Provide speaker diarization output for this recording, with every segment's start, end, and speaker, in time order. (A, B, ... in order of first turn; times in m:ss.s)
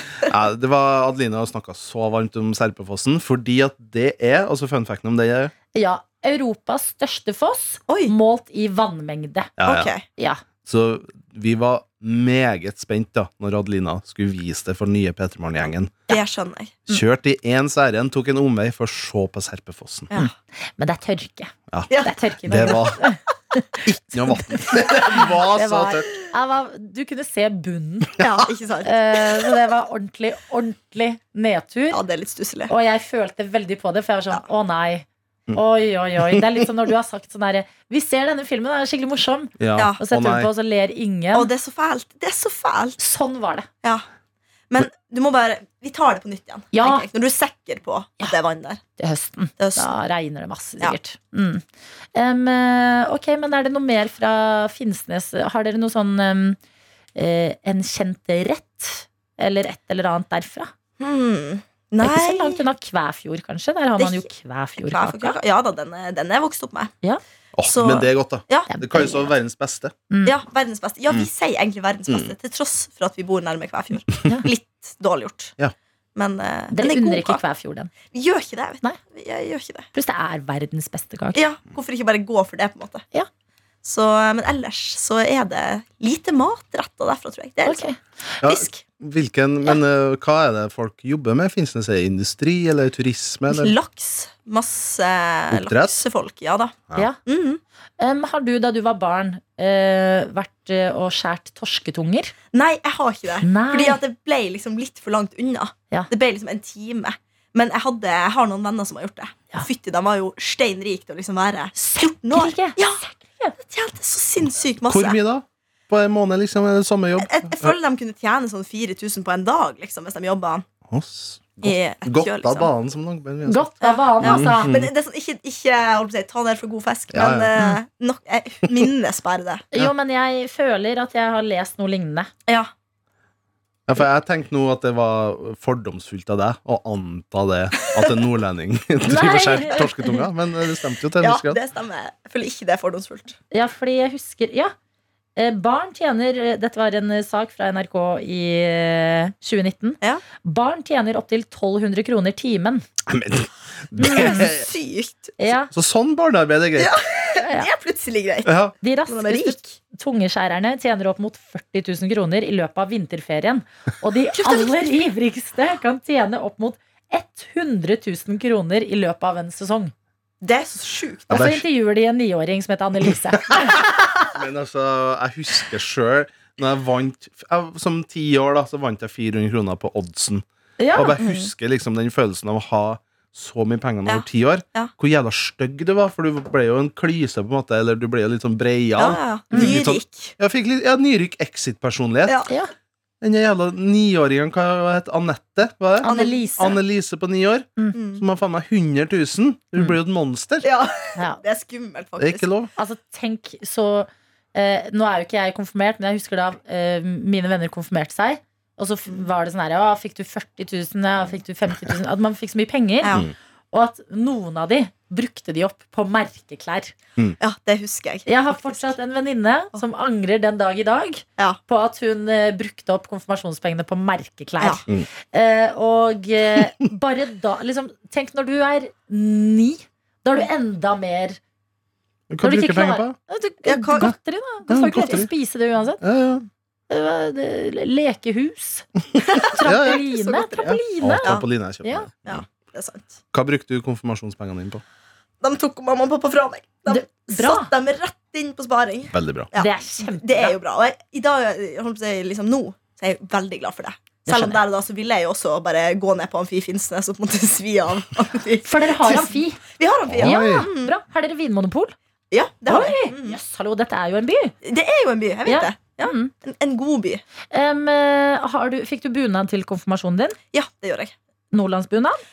0:00.2-0:05.5 A
0:05.7-0:09.5 B
0:07.9-0:08.1 C
0:09.6-0:09.9 A
0:09.6-0:10.0 C
0:10.6-0:15.9 A
0:16.1-0:16.8 C
0:16.9-0:20.1 A
0:20.1-0:28.2 B
0:21.9-0:22.8 C
0:22.4-0:23.0 A
0:23.8-0:26.1 A
0:28.2-0:29.5 C
0:28.8-0:32.0 B
0:31.9-0:32.7 C
0:32.7-0:41.5 B
0:39.6-0:40.5 A
0:41.3-0:43.0 C
0:43.0-0:43.7 B
0:44.7-0:48.8 C
0:46.7-0:47.0 B
0:49.0-0:51.6 B
0:49.6-0:49.9 C
0:52.1-0:56.6 B
0:57.2-1:00.7 B
1:01.0-1:02.6 C
1:02.0-1:05.4 B
1:04.0-1:04.3 C
1:04.8-1:06.9 C
1:07.6-1:09.9 A
1:07.7-1:08.7 C
1:08.7-1:09.3 B
1:10.1-1:10.4 B
1:10.2-1:15.5 C
1:16.1-1:17.4 C
1:16.7-1:17.9 B
1:18.1-1:19.9 C
1:19.9-1:21.4 B
1:21.3-1:23.0 C
1:23.8-1:27.8 C
1:27.6-1:28.0 B
1:28.4-1:33.7 A
1:28.4-1:28.8 C
1:33.5-1:37.6 C
1:35.5-1:36.0 A
1:38.0-1:42.3 B
1:42.5-1:53.0 C
1:43.4-1:44.0 B
1:51.8-1:53.5 B
1:53.6-1:55.2 C
1:54.8-1:57.7 A
1:57.2-2:00.6 C
2:00.9-2:04.9 A
2:01.6-2:02.7 C
2:03.5-2:04.7 B
2:03.8-2:09.6 C
2:07.1-2:07.6 A
2:09.7-2:12.3 B
2:13.9-2:21.6 A
2:19.0-2:20.2 B
2:21.2-2:23.4 C
2:23.5-2:24.7 B
2:25.4-2:32.8 B
2:33.1-2:34.7 A
2:34.0-2:34.5 B
2:34.0-2:35.4 C
2:35.4-2:35.7 B
2:35.7-2:37.0 A
2:36.8-2:38.5 C
2:37.4-2:37.7 B
2:38.4-2:38.7 A
2:38.8-2:49.9 B
2:39.1-2:39.8 C
2:44.4-2:44.8 C
2:50.4-2:51.5 C
2:51.3-2:53.8 B
2:51.3-2:51.6 A
2:54.3-3:12.4 A
3:00.8-3:01.2 B
3:01.2-3:01.5 C
3:04.0-3:04.9 C
3:09.0-3:10.3 C
3:13.2-3:20.7 A
3:16.0-3:16.8 B
3:16.0-3:16.4 C
3:17.9-3:18.2 C
3:20.6-3:22.5 C
3:22.2-3:22.7 A
3:22.8-3:33.2 B
3:33.0-3:33.3 C
3:33.7-3:36.9 B
3:37.4-3:38.9 C
3:38.2-3:51.4 B
3:52.3-3:53.2 A
3:52.4-3:56.0 B
3:53.6-3:54.1 C
3:54.7-3:55.3 A
3:56.0-3:56.5 A
3:56.9-3:58.8 B
3:59.3-4:01.4 C
3:59.4-4:02.1 B
3:59.6-4:00.0 A
4:00.6-4:02.4 A
4:02.2-4:03.2 C
4:03.3-4:04.8 A
4:05.4-4:20.9 C
4:06.9-4:07.7 B
4:09.1-4:09.5 A
4:09.6-4:10.6 B
4:14.2-4:14.6 B
4:18.6-4:19.6 B
4:20.1-4:20.7 A
4:20.2-4:21.9 B
4:22.3-4:23.4 C
4:22.7-4:24.5 B
4:24.6-4:27.2 C
4:25.4-4:26.3 B
4:27.5-4:30.4 B
4:30.5-4:31.1 C
4:31.5-4:32.2 B